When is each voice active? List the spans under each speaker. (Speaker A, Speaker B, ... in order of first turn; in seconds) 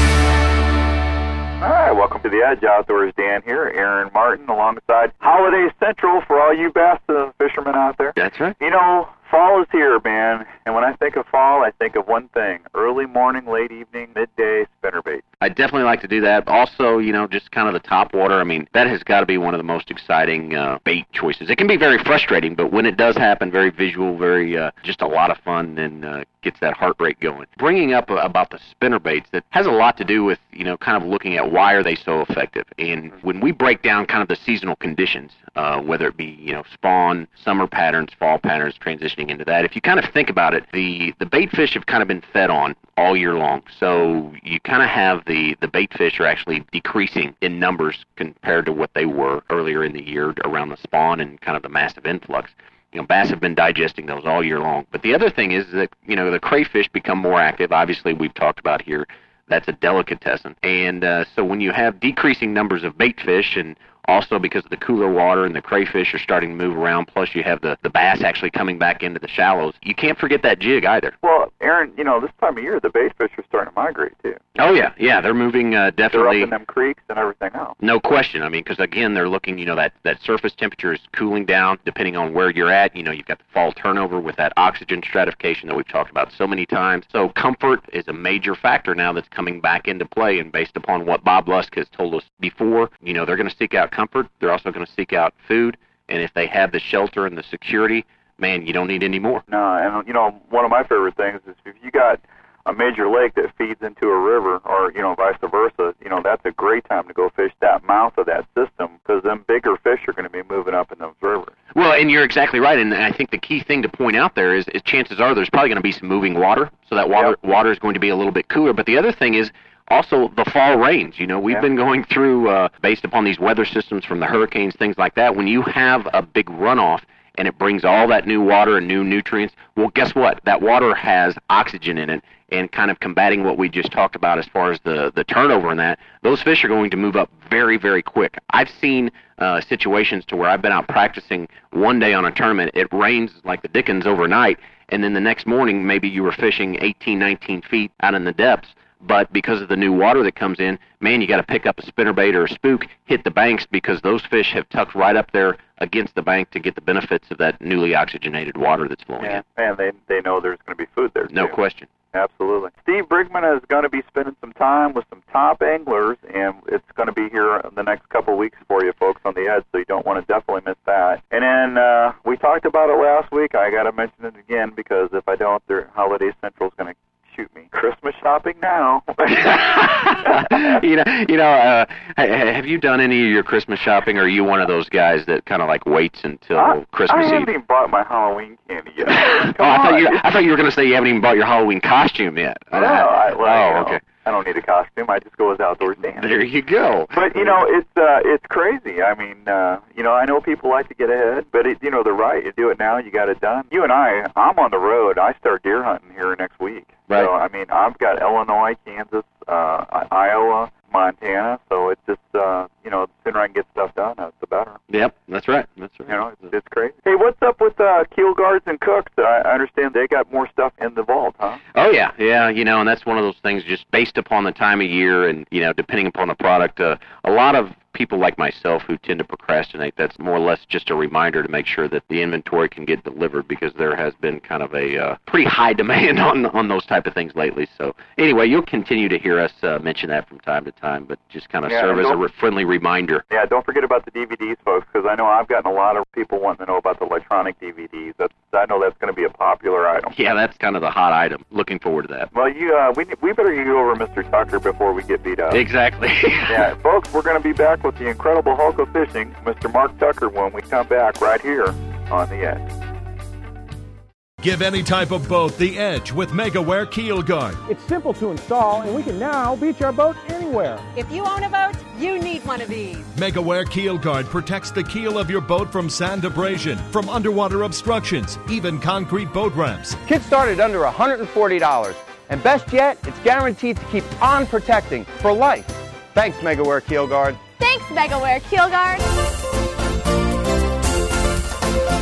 Speaker A: 1.6-15.2, 71.2-74.4, 76.1-77.8, 99.5-111.5, 159.2-161.6, 162.1-180.7, 186.6-190.3, 192.7-196.4, 197.2-214.8, 216.1-221.6, 241.7-242.2, 243.3-250.1, 252.3-255.6, 256.5-262.6
Speaker B: 8.2-8.6, 15.4-71.2, 74.6-76.5, 77.8-99.4, 111.7-159.4, 161.3-161.9, 179.3-187.5, 189.1-194.0, 196.2-197.6, 214.9-216.2, 221.8-243.2, 250.1-252.3, 255.5-256.7
Speaker C: 264.4-267.6, 273.1-280.0
Speaker D: 267.7-270.9
Speaker E: 270.9-273.1, 287.6-289.0
Speaker F: 280.1-287.4